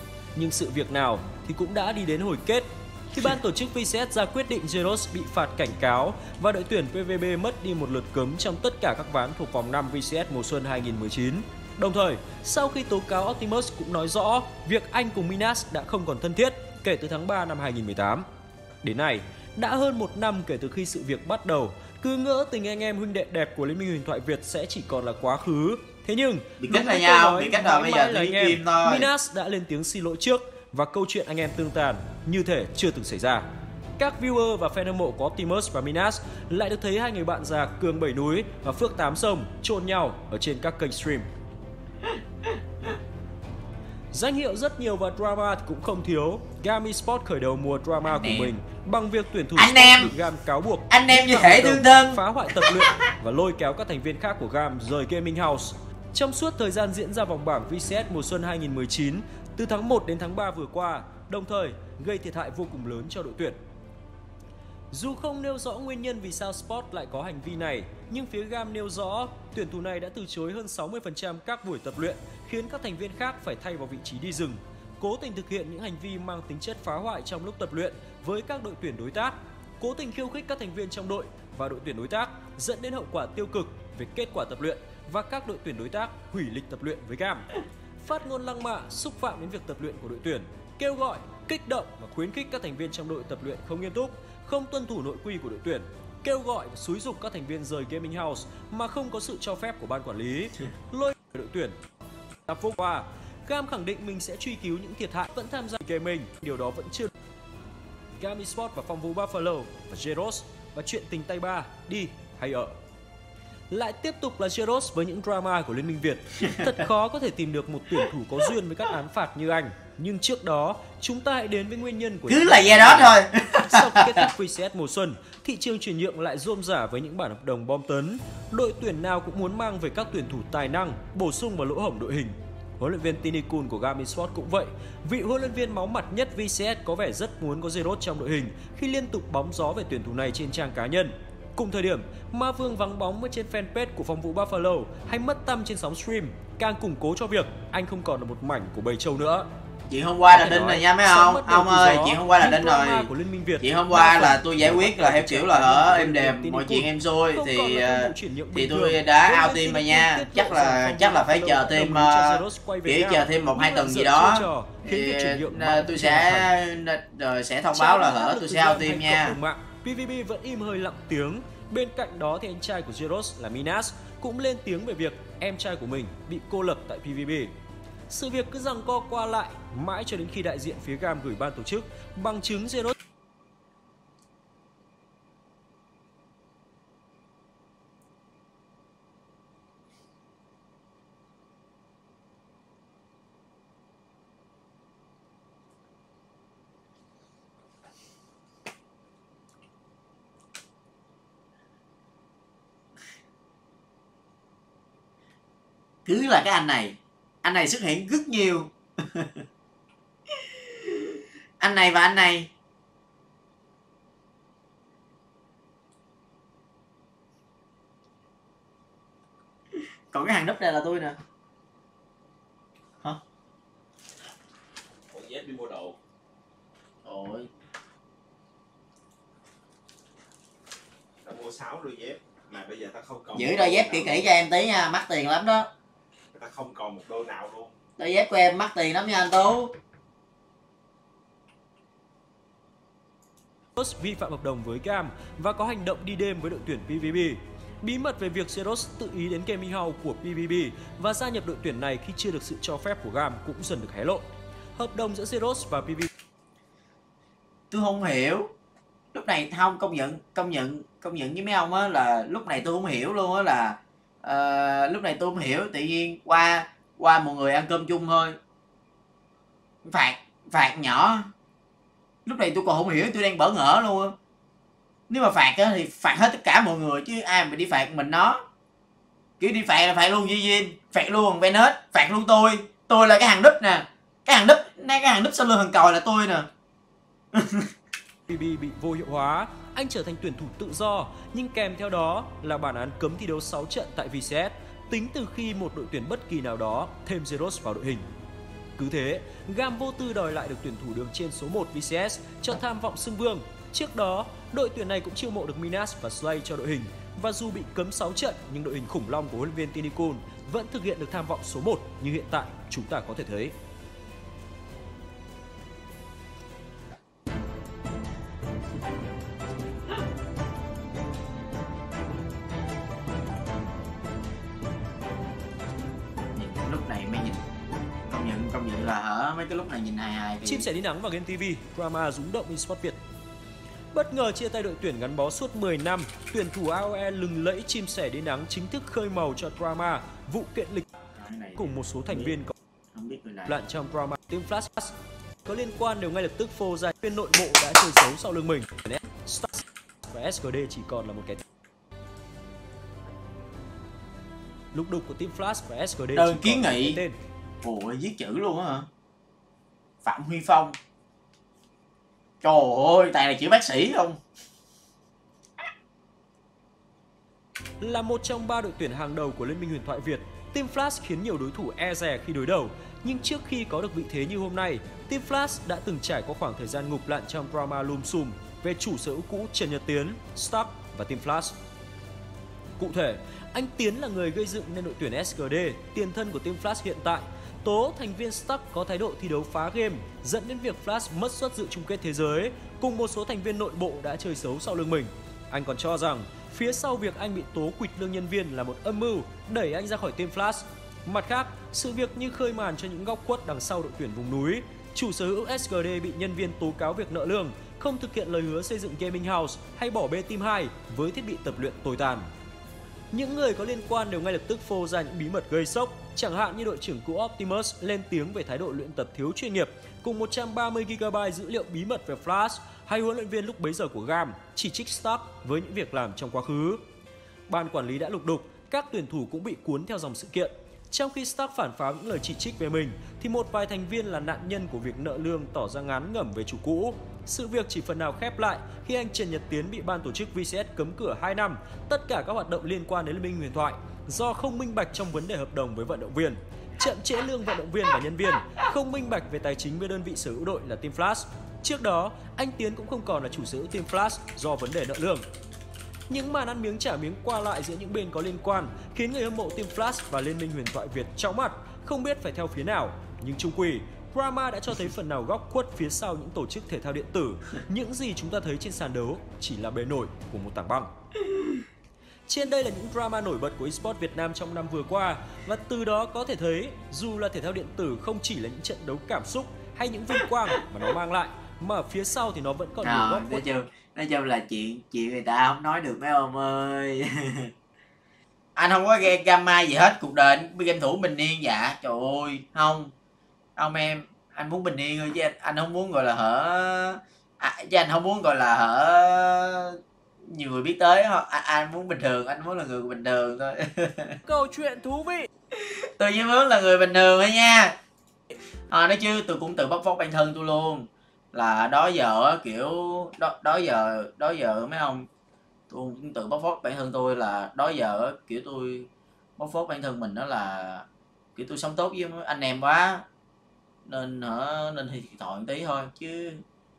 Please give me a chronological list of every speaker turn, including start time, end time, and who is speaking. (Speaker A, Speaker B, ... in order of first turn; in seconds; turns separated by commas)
Speaker A: 0.3-18.3, Speaker A: 18.8-33.5, Speaker B: 26.6-29.1, Speaker A: 34.0-41.3, Speaker A: 44.1-63.6, Speaker B: 48.0-48.5, Speaker B: 49.6-50.1, Speaker B: 50.9-53.0, Speaker A: 64.9-87.5, Speaker A: 88.0-101.8, Speaker A: 102.5-107.1, Speaker A: 108.2-112.8, Speaker A: 113.7-149.5, Speaker B: 122.3-124.3, Speaker B: 149.9-153.1, Speaker A: 150.3-166.5, Speaker B: 153.6-169.4, Speaker A: 167.7-177.5, Speaker A: 178.1-182.9, Speaker B: 206.1-209.4, Speaker B: 210.4-212.5, Speaker B: 220.1-221.2, Speaker C: 225.1-226.0, Speaker B: 227.0-227.5, Speaker C: 231.2-234.3, Speaker B: 233.3-235.7, Speaker C: 236.3-237.7, Speaker B: 238.0-239.7, Speaker A: 243.8-254.2, Speaker A: 254.8-256.1, Speaker B: 257.7-258.5, Speaker B: 259.1-268.4, Speaker B: 269.9-271.3, Speaker B: 272.3-274.1, Speaker B: 275.1-278.4, Speaker B: 279.4-286.5, Speaker B: 287.3-287.7, Speaker A: 288.3-298.1, Speaker A: 298.8-313.5, Speaker B: 326.4-327.4, Speaker B: 328.1-330.7, Speaker A: 330.4-333.0, Speaker A: 333.9-340.9, Speaker B: 341.1-342.4, Speaker A: 341.6-342.5, Speaker B: 342.9-343.6, Speaker A: 343.5-344.9, Speaker A: 345.4-351.4, Speaker A: 354.7-357.2, Speaker B: 356.1-357.0, Speaker B: 357.6-358.9, Speaker B: 360.0-360.8, Speaker B: 362.4-364.2, Speaker A: 367.8-381.6, Speaker A: 382.8-412.3, Speaker A: 413.1-426.8, Speaker A: 427.5-455.2, Speaker A: 456.1-470.9, Speaker A: 472.3-483.4, Speaker B: 482.8-487.5, Speaker B: 488.6-492.9, Speaker B: 493.6-504.2, Speaker A: 504.3-505.3, Speaker B: 505.5-507.7, Speaker B: 508.7-515.1, Speaker B: 515.7-523.0, Speaker B: 523.9-526.4